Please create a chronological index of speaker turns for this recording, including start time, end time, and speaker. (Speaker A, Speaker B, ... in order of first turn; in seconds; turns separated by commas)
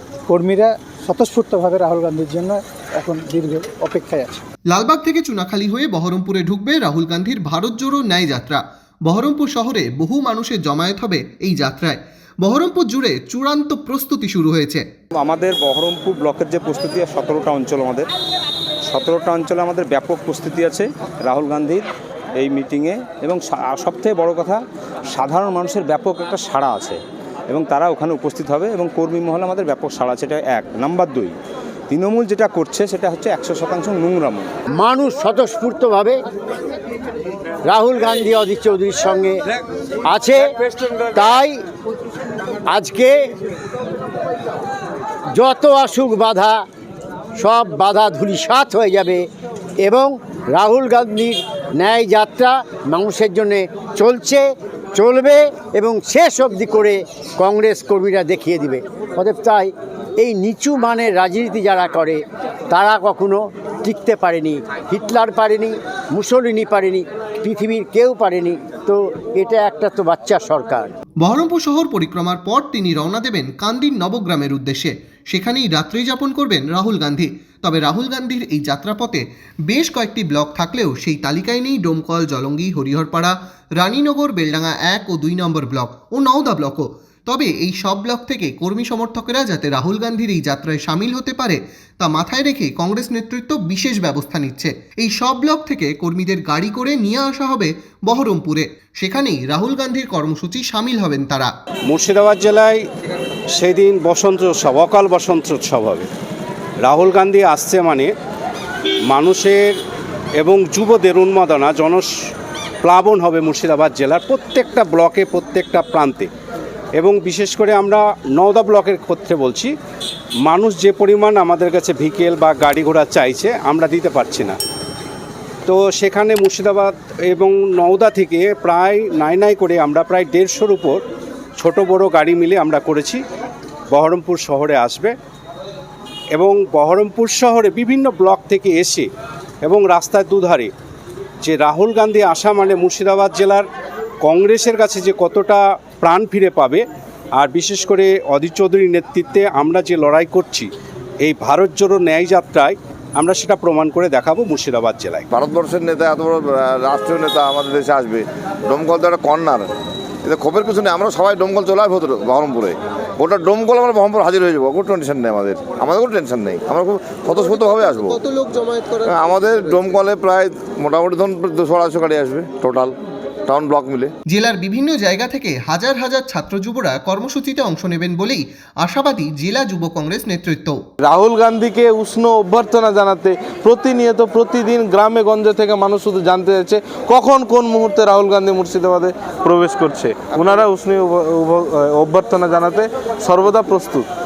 Speaker A: 0.3-4.4, Speaker B: 4.7-14.8, Speaker C: 15.2-18.1, Speaker C: 18.9-31.4, Speaker C: 31.9-34.5, Speaker D: 34.8-36.2, Speaker D: 37.7-39.4, Speaker D: 40.1-40.5, Speaker D: 41.1-41.6, Speaker D: 42.7-43.1, Speaker D: 45.4-46.6, Speaker D: 47.4-49.2, Speaker D: 49.8-70.9, Speaker B: 71.2-101.5, Speaker E: 101.9-102.8, Speaker E: 103.5-106.1, Speaker E: 106.8-108.1, Speaker E: 109.1-109.8, Speaker E: 110.4-112.1, Speaker E: 112.8-116.3, Speaker E: 117.0-119.7, Speaker E: 120.4-124.6, Speaker E: 125.7-131.0, Speaker E: 131.6-133.2, Speaker E: 133.9-135.1, Speaker E: 136.3-139.1, Speaker E: 139.6-140.7, Speaker E: 141.4-143.7, Speaker E: 144.2-146.8, Speaker E: 147.4-150.7, Speaker E: 151.2-155.3, Speaker F: 155.3-159.7, Speaker F: 160.2-168.2, Speaker B: 167.3-170.0, Speaker F: 169.1-172.9, Speaker F: 173.5-174.1, Speaker B: 174.3-180.8, Speaker G: 181.0-194.1